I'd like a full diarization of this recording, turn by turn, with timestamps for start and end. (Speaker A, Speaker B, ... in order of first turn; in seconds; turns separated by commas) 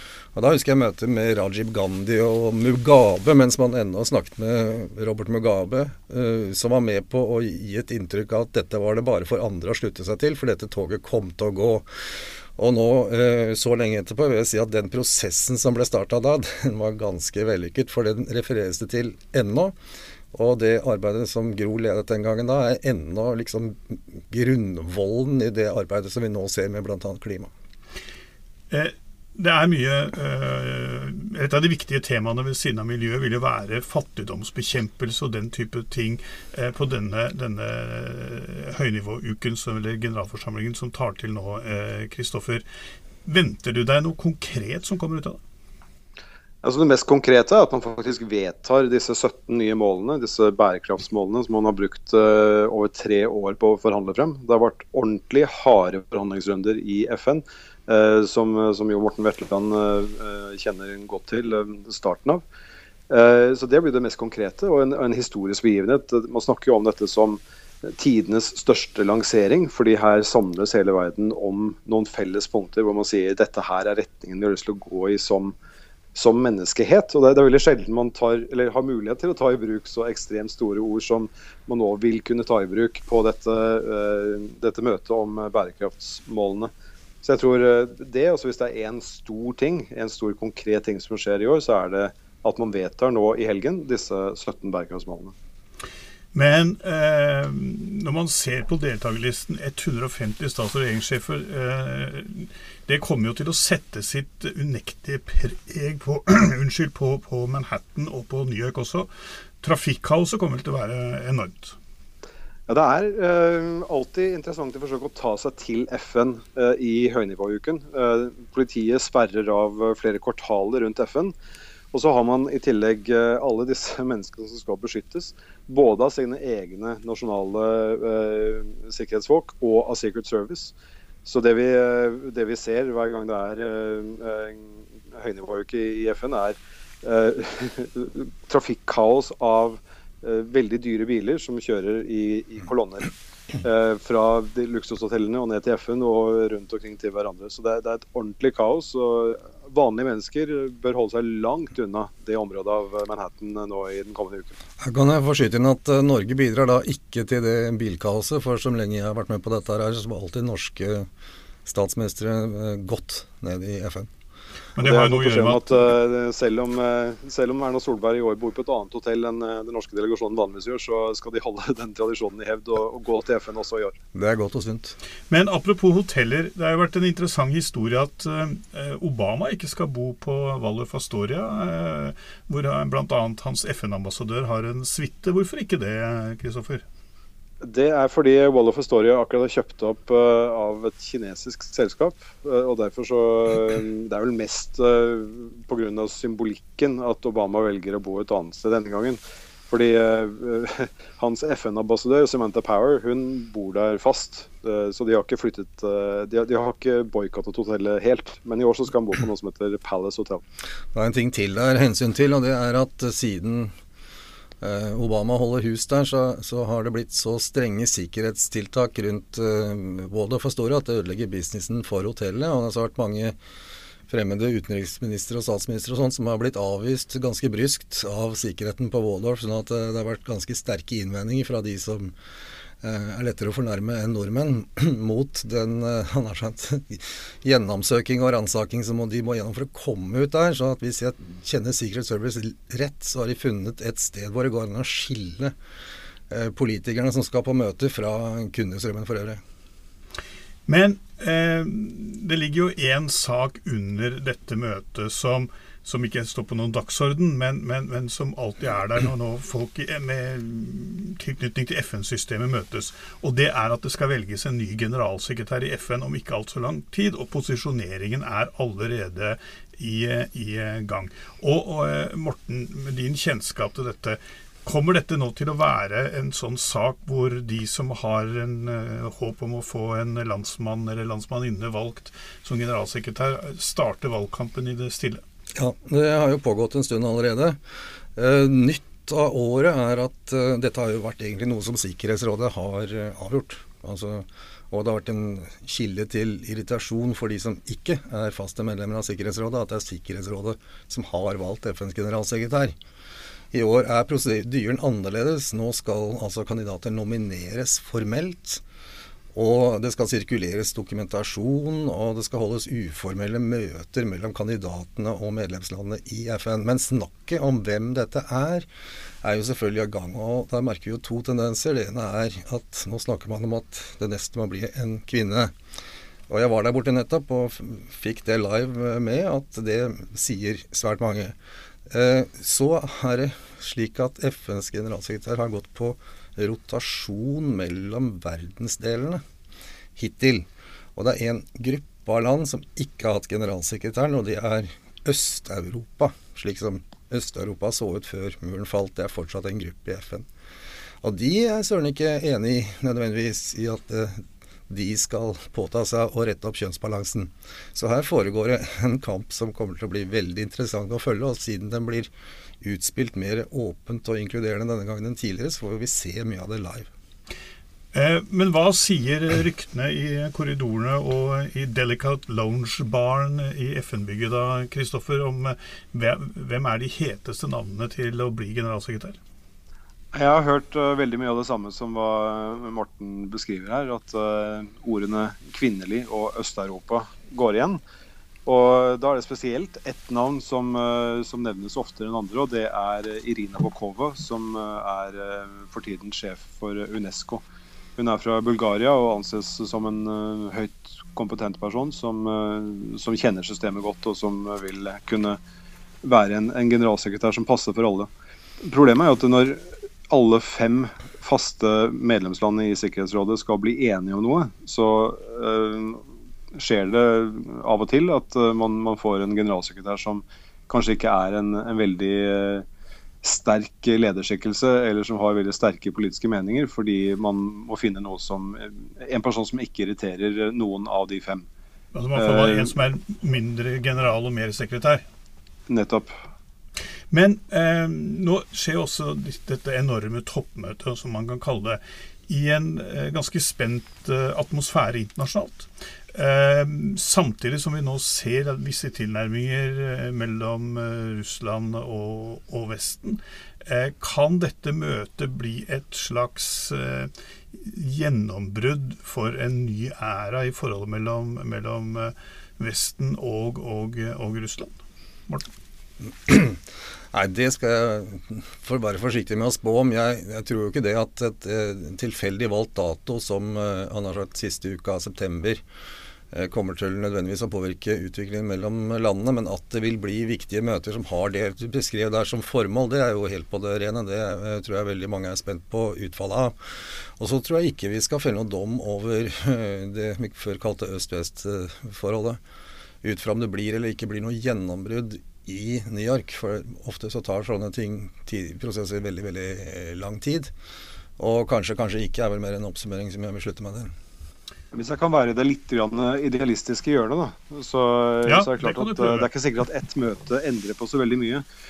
Speaker A: 0.3-11.9, Speaker A: 12.6-19.7, Speaker A: 20.3-27.5, Speaker B: 28.7-42.6, Speaker B: 43.2-45.4, Speaker C: 46.6-62.4, Speaker C: 63.1-75.5, Speaker C: 76.1-86.7, Speaker C: 87.2-95.3, Speaker B: 96.3-109.1, Speaker B: 109.6-111.8, Speaker C: 112.7-121.3, Speaker C: 121.9-143.1, Speaker C: 143.6-154.5, Speaker A: 154.8-161.1, Speaker A: 161.7-164.1, Speaker B: 164.8-165.9, Speaker C: 164.8-174.0, Speaker A: 174.1-175.0, Speaker B: 175.3-186.8, Speaker C: 187.6-210.4, Speaker A: 210.9-213.7, Speaker A: 214.6-223.4, Speaker A: 224.1-232.1, Speaker A: 232.8-245.5, Speaker A: 246.3-249.4, Speaker B: 250.7-285.2, Speaker A: 285.5-287.6, Speaker A: 288.1-302.8, Speaker A: 303.5-308.6, Speaker A: 309.3-318.7, Speaker A: 319.2-325.5, Speaker A: 326.3-331.3, Speaker A: 331.9-339.2, Speaker A: 339.9-350.2, Speaker A: 351.0-362.1, Speaker A: 362.6-366.9, Speaker B: 367.9-379.2, Speaker C: 380.1-387.8, Speaker C: 388.4-397.4, Speaker C: 397.9-405.4, Speaker C: 406.0-408.1, Speaker C: 408.6-416.0, Speaker C: 416.6-422.6, Speaker C: 423.2-431.4, Speaker B: 431.9-435.0, Speaker C: 432.1-432.7, Speaker C: 435.7-436.1, Speaker B: 437.1-464.7, Speaker A: 466.2-466.6, Speaker A: 467.1-475.6, Speaker A: 476.3-486.6, Speaker A: 487.2-492.4, Speaker A: 493.0-500.5, Speaker A: 501.2-503.9, Speaker C: 504.7-511.4, Speaker B: 508.3-509.3